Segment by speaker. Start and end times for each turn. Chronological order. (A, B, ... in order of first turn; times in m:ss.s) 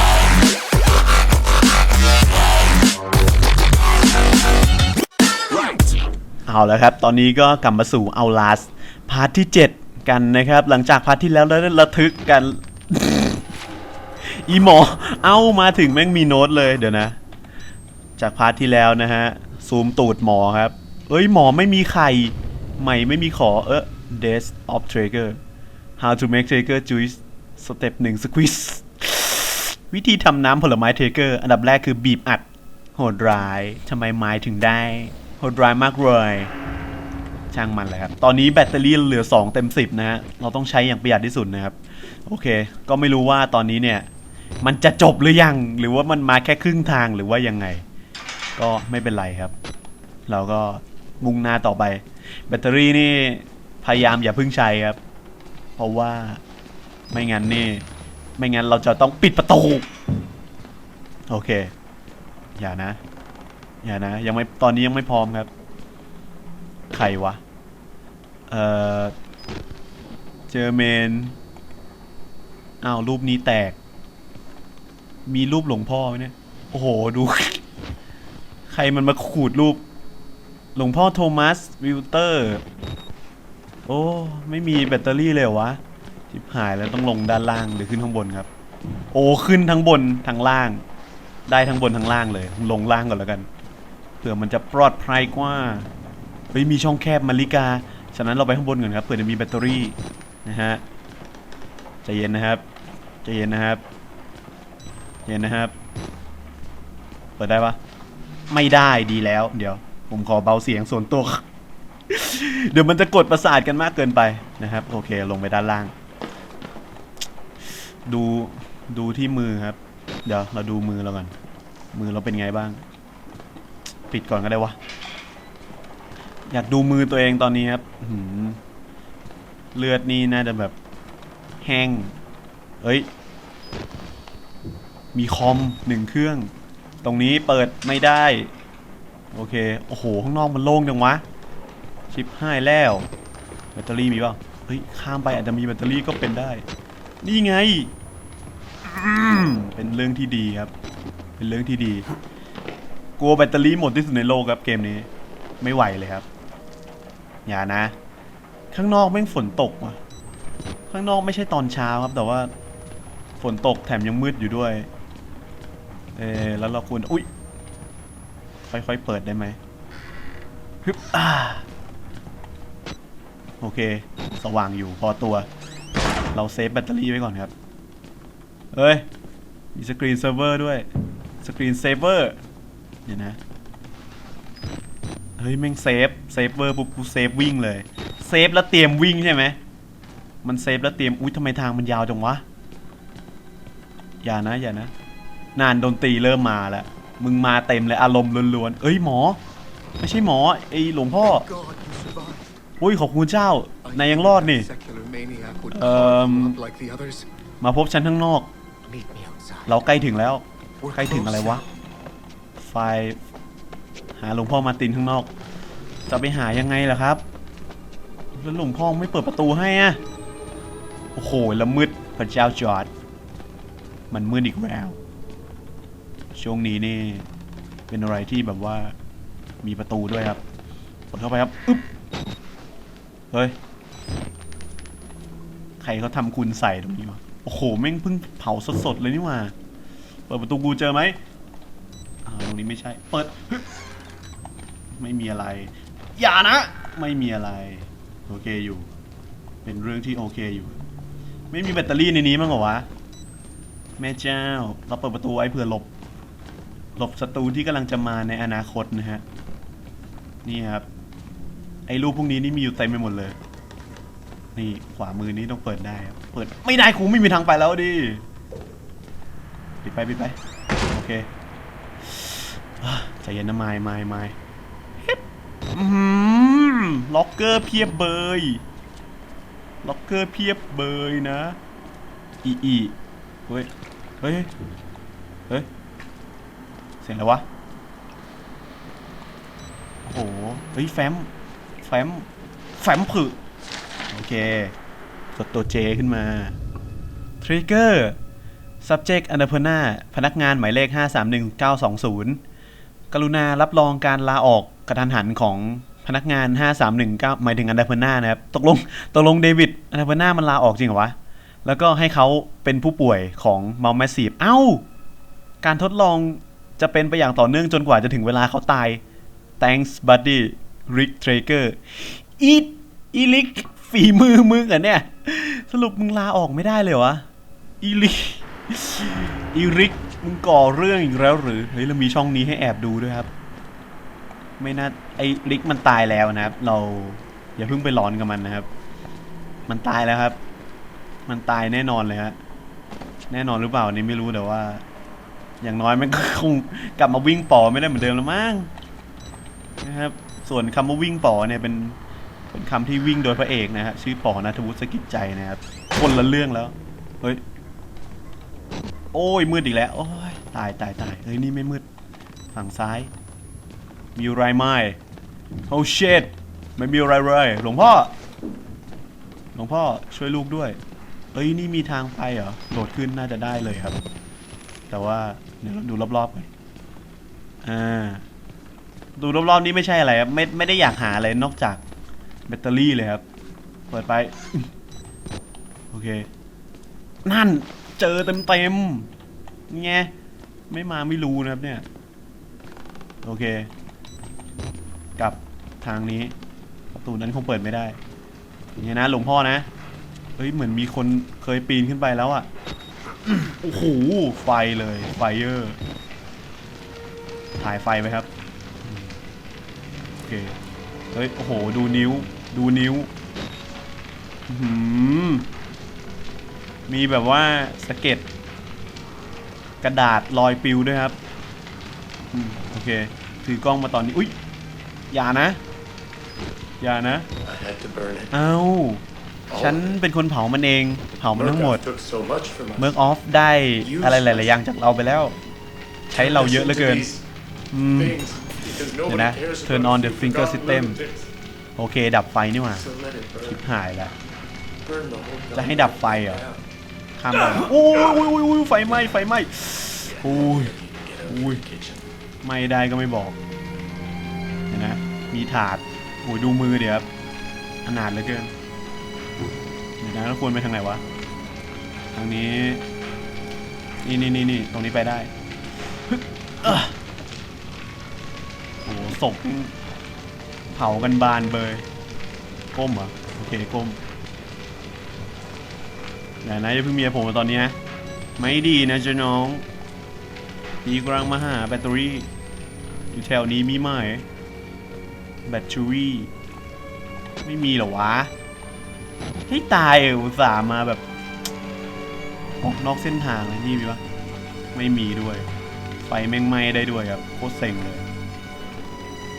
0:06.5-0:13.4 A
0:14.2-0:17.2 A
0:18.2-0:25.4 A
0:26.0-0:32.4 A
0:33.0-0:36.5 A
0:37.5-0:44.1 A
0:44.6-0:47.8 A
0:48.6-0:49.5 A
0:50.3-0:55.0 A
0:55.8-0:56.4 A
0:57.1-0:57.8 A
0:58.4-0:59.9 A
1:01.3-1:01.7 A
1:02.6-1:03.0 A
1:03.8-1:05.5 A
1:06.9-1:07.4 A
1:08.5-1:09.1 A
1:10.5-1:11.4 A
1:12.8-1:13.8 A
1:15.2-1:17.6 A
1:18.7-1:19.8 A
1:20.7-1:22.6 A
1:23.9-1:25.8 A
1:26.3-1:28.5 A
1:29.1-1:30.8 A
1:31.5-1:33.5 A
1:34.2-1:35.9 A
1:36.5-1:40.8 A
1:42.0-1:42.6 A
1:43.2-1:43.8 A
1:45.2-1:45.7 A
1:47.4-1:47.8 A
1:48.5-1:51.4 A
1:52.1-1:55.9 A
1:58.0-2:01.3 A
2:01.9-2:02.8 A
2:04.1-2:04.8 A
2:06.5-2:08.6 A
2:09.7-2:10.7 A
2:11.6-2:12.1 A
2:12.8-2:13.1 A
2:15.1-2:16.5 A
2:17.0-2:18.5 A
2:19.3-2:21.2 A
2:22.1-2:23.1 A
2:23.7-2:26.6 A
2:27.2-2:27.9 A
2:28.8-2:30.7 A
2:31.4-2:32.1 A
2:33.2-2:35.1 A
2:35.6-2:36.2 A
2:37.4-2:37.9 A
2:38.7-2:40.0 A
2:40.9-2:42.5 A
2:43.4-2:44.9 A
2:46.2-2:47.3 A
2:48.7-2:49.6 A
2:50.8-2:51.6 A
2:53.6-2:55.5 A
2:56.3-2:57.5 A
2:58.7-2:59.0 A
2:59.7-3:00.8 A
3:01.4-3:02.4 A
3:03.0-3:03.4 A
3:05.4-3:09.6 A
3:10.4-3:12.4 A
3:14.2-3:14.9 A
3:15.6-3:19.4 A
3:20.0-3:21.5 A
3:21.2-3:22.5 B
3:22.8-3:24.7 A
3:23.8-3:27.3 B
3:25.7-3:26.6 A
3:27.6-3:28.5 A
3:28.8-3:29.7 B
3:29.7-3:31.6 A
3:30.8-3:31.8 B
3:32.6-3:33.2 A
3:34.2-3:35.3 A
3:36.1-3:37.2 A
3:38.3-3:40.0 A
3:41.1-3:42.9 A
3:44.1-3:45.0 A
3:46.3-3:47.2 A
3:47.9-3:48.9 A
3:49.6-3:50.4 A
3:51.1-3:51.8 A
3:53.3-3:53.6 A
3:55.8-3:59.5 A
4:00.3-4:01.2 A
4:02.2-4:03.6 A
4:04.9-4:08.9 A
4:09.6-4:10.8 A
4:11.5-4:12.8 A
4:14.0-4:15.9 A
4:17.0-4:19.2 A
4:20.4-4:20.8 A
4:21.9-4:23.4 A
4:24.6-4:28.2 A
4:29.8-4:30.4 A
4:30.9-4:31.3 A
4:32.0-4:34.4 A
4:35.7-4:38.6 A
4:39.8-4:41.6 A
4:42.4-4:42.9 A
4:44.2-4:44.5 A
4:47.0-4:47.4 A
4:50.0-4:51.3 A
4:51.8-4:53.4 A
4:54.1-4:54.7 A
4:55.3-4:56.6 A
4:57.4-4:58.2 A
4:58.8-5:02.4 A
5:03.1-5:14.8 A
5:15.6-5:19.0 A
5:19.6-5:27.2 A
5:27.8-5:33.3 A
5:34.6-5:38.7 A
5:39.7-5:40.4 A
5:41.3-5:42.4 A
5:43.3-5:44.8 A
5:45.6-5:48.7 A
5:49.8-5:52.0 A
5:52.5-5:57.4 A
5:59.1-6:01.8 A
6:02.5-6:03.1 A
6:04.2-6:05.0 A
6:05.7-6:08.1 A
6:09.5-6:10.8 A
6:11.3-6:14.0 A
6:14.9-6:16.5 A
6:17.6-6:18.2 A
6:19.2-6:21.8 A
6:22.5-6:23.2 A
6:23.9-6:24.7 A
6:25.9-6:26.3 A
6:27.2-6:29.1 A
6:29.7-6:30.1 A
6:30.7-6:31.8 A
6:33.2-6:33.7 A
6:35.2-6:36.3 A
6:36.9-6:38.0 A
6:38.8-6:39.7 A
6:40.4-6:42.5 A
6:43.4-6:45.8 A
6:47.6-6:48.3 A
6:48.8-6:49.1 A
6:50.2-6:50.6 A
6:51.1-6:53.1 A
6:54.5-6:55.5 A
6:56.9-6:58.3 A
6:59.8-7:01.2 A
7:02.3-7:04.3 A
7:05.1-7:05.6 A
7:06.8-7:07.3 A
7:07.4-7:08.2 C
7:07.5-7:08.3 B
7:08.3-7:09.0 A
7:09.5-7:09.8 C
7:09.5-7:11.8 A
7:11.3-7:12.7 C
7:12.2-7:12.8 B
7:12.8-7:15.4 A
7:13.8-7:14.4 B
7:16.1-7:17.1 A
7:16.1-7:17.2 C
7:17.7-7:18.2 A
7:18.0-7:21.3 C
7:18.8-7:19.6 B
7:19.0-7:21.0 A
7:21.8-7:22.8 A
7:22.8-7:23.5 C
7:22.9-7:23.5 B
7:23.4-7:24.1 A
7:24.8-7:26.3 B
7:24.9-7:26.4 C
7:25.5-7:26.4 A
7:27.2-7:30.7 A
7:30.3-7:32.0 C
7:30.6-7:32.0 B
7:31.3-7:31.6 A
7:32.4-7:33.4 A
7:34.7-7:37.1 A
7:37.8-7:38.5 A
7:40.0-7:41.0 A
7:42.1-7:42.8 A
7:44.0-7:45.3 A
7:46.1-7:46.9 A
7:48.8-7:49.7 A
7:50.7-7:51.8 A
7:52.7-7:54.0 A
7:56.4-7:57.7 A
7:58.4-7:59.6 A
8:00.8-8:02.3 A
8:03.1-8:04.2 A
8:05.4-8:06.3 A
8:07.4-8:08.3 A
8:09.5-8:11.0 A
8:12.6-8:14.0 A
8:14.7-8:15.5 A
8:16.0-8:18.0 A